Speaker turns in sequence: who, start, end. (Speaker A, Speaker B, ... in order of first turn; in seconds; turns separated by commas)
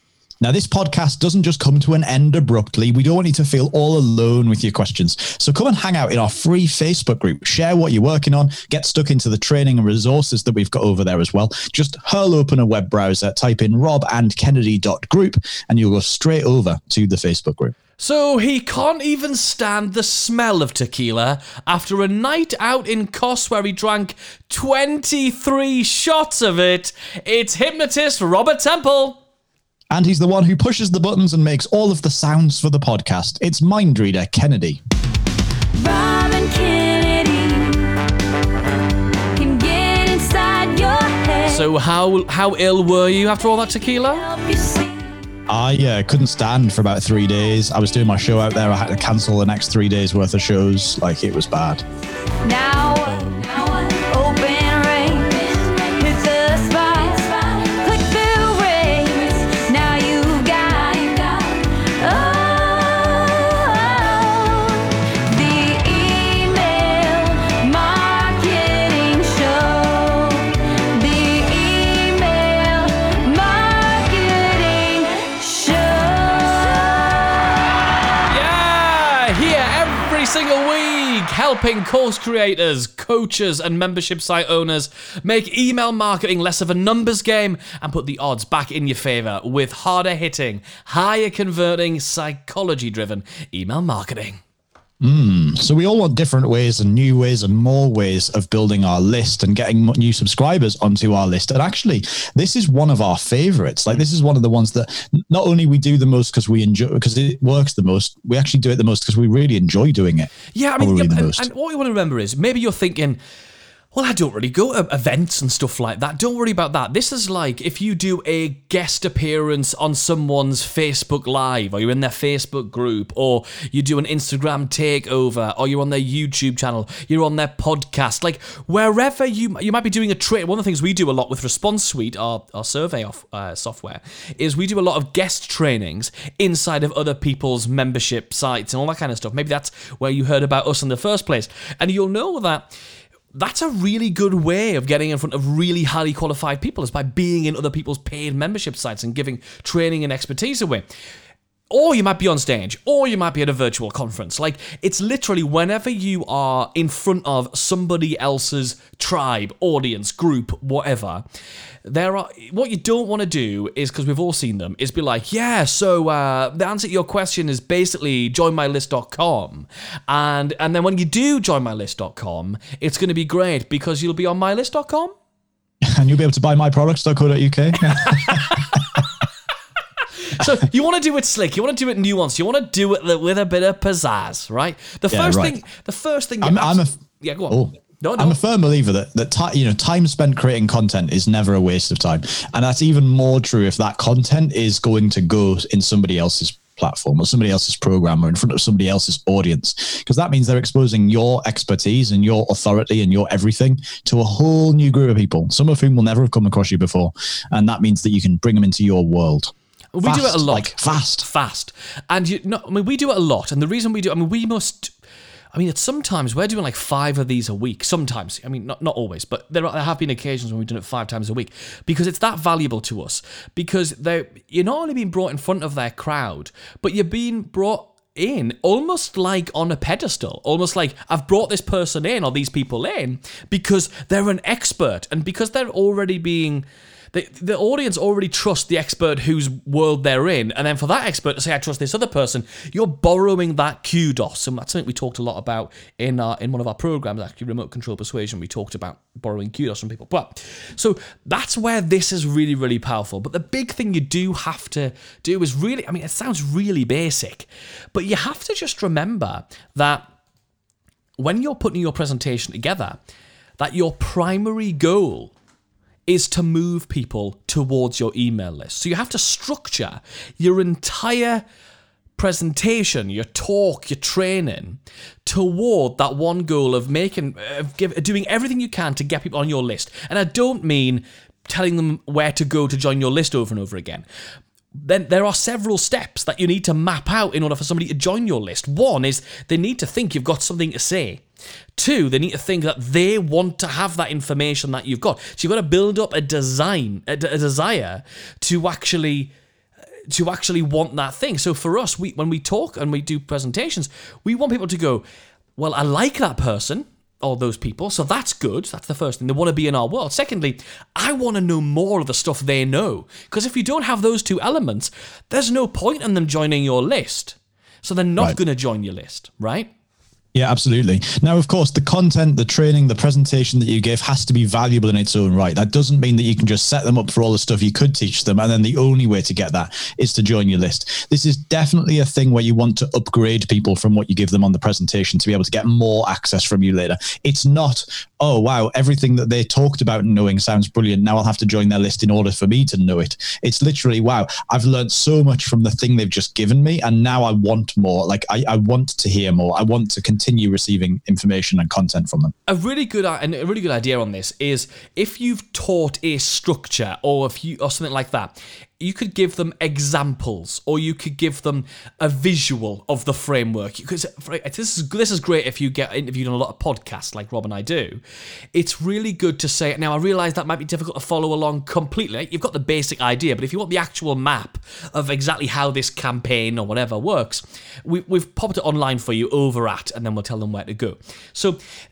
Speaker A: 0.4-17.7, Speaker B: 18.0-29.2, Speaker A: 29.9-34.8, Speaker C: 35.7-38.0, Speaker C: 39.3-41.6, Speaker B: 41.5-44.3, Speaker C: 44.2-45.3, Speaker A: 45.5-51.8, Speaker C: 52.4-77.8, Speaker B: 78.3-94.4, Speaker A: 95.0-111.5, Speaker B: 110.5-113.2, Speaker B: 113.9-142.7, Speaker B: 143.3-150.8, Speaker B: 151.7-161.2, Speaker B: 161.8-175.1, Speaker A: 175.8-178.7, Speaker B: 178.0-178.8, Speaker B: 180.0-188.4, Speaker A: 185.1-185.5, Speaker A: 186.4-187.0, Speaker A: 187.5-209.5, Speaker B: 209.9-214.9, Speaker A: 210.0-211.2, Speaker B: 215.5-260.1, Speaker B: 261.2-263.0, Speaker B: 263.6-265.3, Speaker B: 266.1-271.4, Speaker B: 272.2-284.0, Speaker B: 284.7-291.2, Speaker B: 291.8-299.3, Speaker B: 300.1-305.0, Speaker B: 305.6-319.7, Speaker A: 320.3-352.3, Speaker B: 352.5-368.0, Speaker B: 368.5-381.6